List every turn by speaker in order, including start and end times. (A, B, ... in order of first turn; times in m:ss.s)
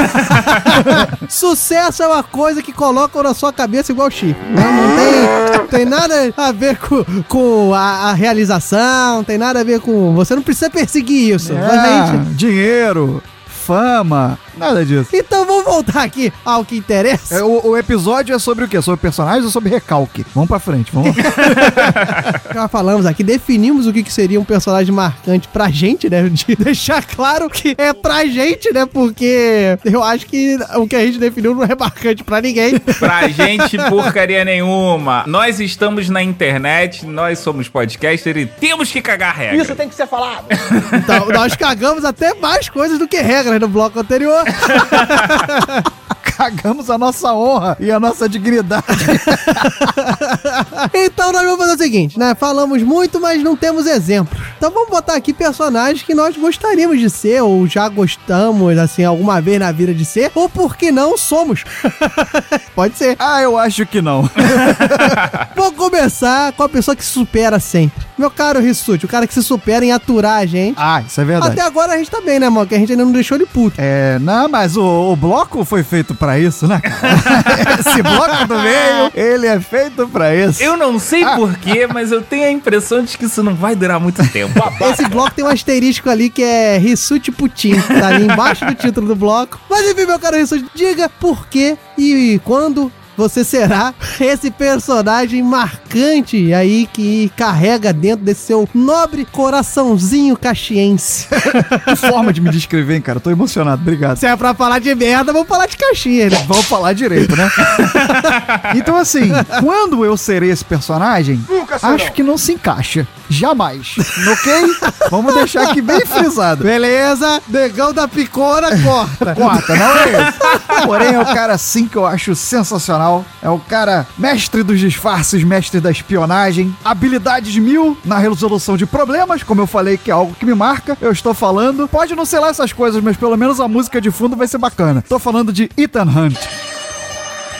0:00.3-0:12.2 A
0:11.4-0:15.1 B
0:15.1-0:17.4 A
0:17.3-0:21.6 B
0:21.2-0:33.4 A
0:33.0-0:39.8 C
0:39.5-0:40.9 D
0:41.0-0:45.8 A
0:46.1-0:50.0 B
0:50.9-1:03.2 A
1:03.2-1:05.2 B
1:05.5-1:10.8 A
1:10.8-1:11.6 B
1:11.4-1:13.8 A
1:13.8-1:21.4 B
1:18.0-1:19.1 A
1:20.6-1:24.7 C
1:24.6-1:25.2 D
1:24.8-1:41.6 A
1:41.5-1:44.2 B
1:44.2-1:46.5 A
1:46.3-1:47.6 B
1:47.6-1:48.1 A
1:47.8-1:48.6 C
1:48.7-1:56.7 B
1:51.5-1:52.1 D
1:54.1-1:55.7 A
1:56.6-2:01.0 A
1:59.2-2:16.5 B